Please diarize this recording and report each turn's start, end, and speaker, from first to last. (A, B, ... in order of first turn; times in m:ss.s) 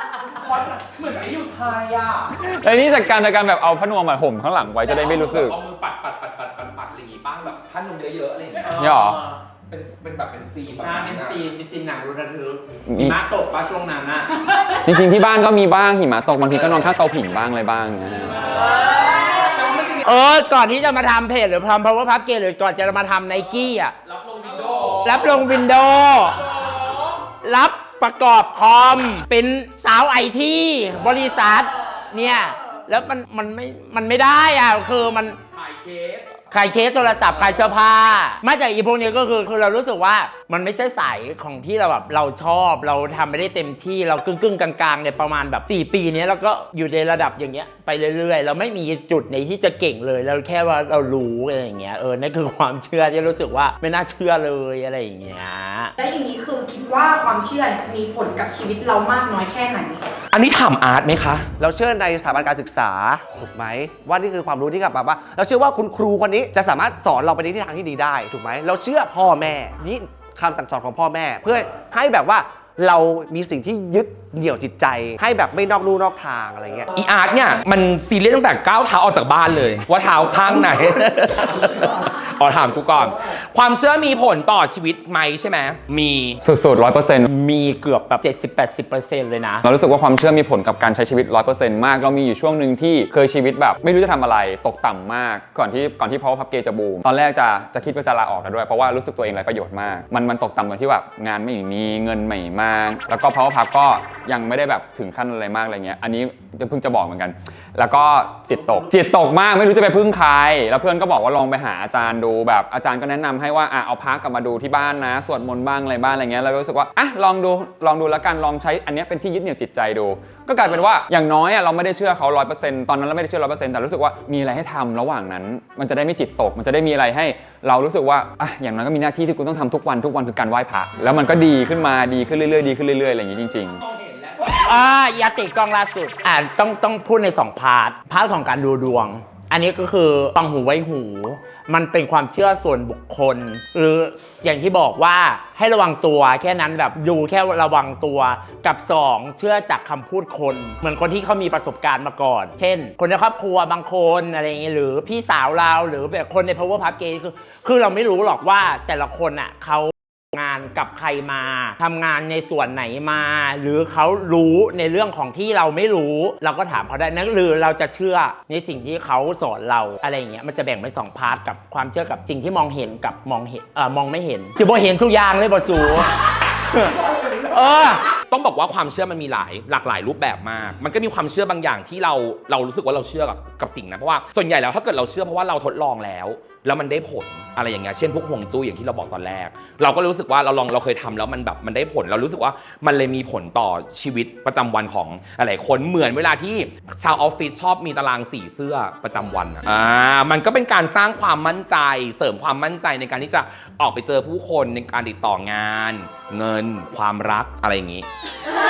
0:00.2-0:02.4 A
0:02.4-0:05.6 B
0:04.8-0:08.8 A
0:08.5-0:09.4 C
0:08.8-0:09.2 B
0:09.7-0:11.4 A
0:10.7-0:14.8 C
0:12.9-0:13.2 B
0:14.8-0:18.4 B
0:16.5-0:16.9 A
0:18.4-0:19.9 A
0:19.0-0:23.9 C
0:24.0-0:25.5 A
0:25.0-0:26.4 C
0:26.4-0:27.1 A
0:27.4-0:35.4 C
0:35.5-0:36.4 A
0:36.5-0:55.9 C
0:37.2-0:37.7 A
0:56.0-1:00.0 D
1:00.3-1:01.5 A
1:01.6-1:16.9 E
1:16.9-1:26.4 A
1:26.4-1:27.3 B
1:27.2-1:29.6 C
1:29.6-2:13.8 B
2:13.8-2:14.7 A
2:14.5-2:56.1 C
2:56.7-2:57.0 C
2:56.9-2:57.7 E
2:57.5-2:58.0 C
2:58.3-3:28.1 A